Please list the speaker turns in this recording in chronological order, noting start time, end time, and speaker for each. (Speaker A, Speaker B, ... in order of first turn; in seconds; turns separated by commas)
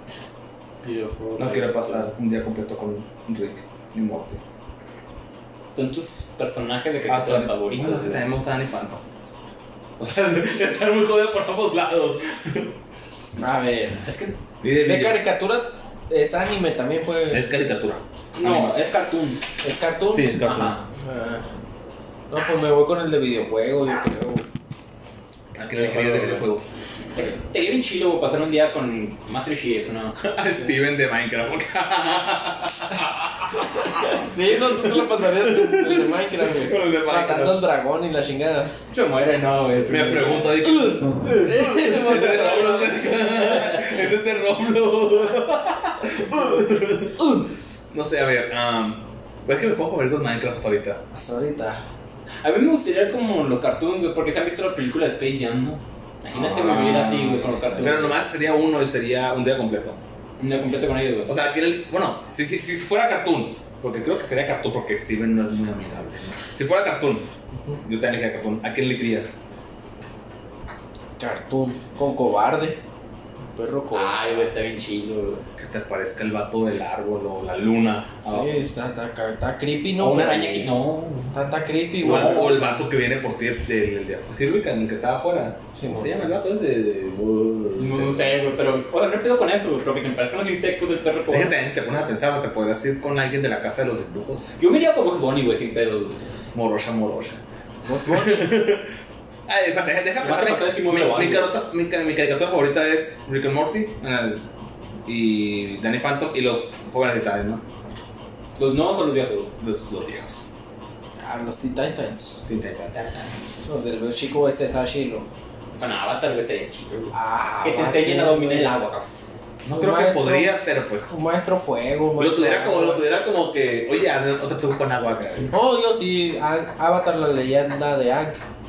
Speaker A: 0.8-2.1, Speaker B: 1.4-4.4, Speaker A: 5.7-8.2, Speaker B: 7.1-9.0, Speaker B: 10.0-12.7, Speaker C: 13.4-14.1, Speaker A: 14.1-14.3, Speaker B: 14.6-15.2, Speaker C: 14.7-17.5, Speaker B: 17.3-18.9, Speaker A: 18.4-19.4, Speaker C: 19.6-20.4, Speaker B: 20.1-20.8, Speaker A: 20.4-20.9, Speaker C: 20.9-21.4, Speaker C: 22.3-24.4, Speaker B: 25.5-26.7, Speaker A: 25.8-26.4, Speaker A: 27.1-30.2, Speaker B: 30.2-37.7, Speaker C: 33.9-38.7, Speaker A: 38.9-40.6, Speaker B: 39.9-51.0, Speaker C: 40.5-43.2, Speaker C: 51.1-51.8, Speaker A: 52.4-58.2, Speaker B: 56.3-60.0, Speaker C: 56.4-58.1, Speaker A: 60.4-61.4, Speaker B: 61.3-67.3, Speaker B: 67.8-69.4, Speaker C: 71.2-72.8, Speaker C: 73.5-74.4, Speaker A: 73.9-75.5, Speaker B: 75.6-78.6, Speaker C: 78.2-80.7, Speaker A: 80.0-81.3, Speaker C: 81.3-82.8, Speaker B: 82.0-88.4, Speaker A: 82.0-82.6, Speaker C: 85.7-86.3, Speaker A: 87.8-91.5, Speaker B: 91.3-94.5, Speaker A: 94.6-96.3, Speaker B: 96.5-97.4, Speaker C: 97.8-98.8, Speaker B: 98.1-98.9, Speaker B: 99.5-104.5, Speaker A: 100.2-101.5, Speaker B: 105.0-107.6, Speaker A: 108.6-109.5, Speaker B: 109.6-110.4, Speaker C: 111.2-112.5, Speaker B: 112.5-113.0, Speaker A: 113.0-113.3, Speaker C: 113.7-115.3, Speaker A: 115.8-119.3, Speaker C: 117.1-118.8, Speaker B: 119.6-121.1, Speaker C: 119.7-120.6, Speaker C: 121.1-123.0, Speaker B: 122.2-125.5, Speaker C: 125.5-128.4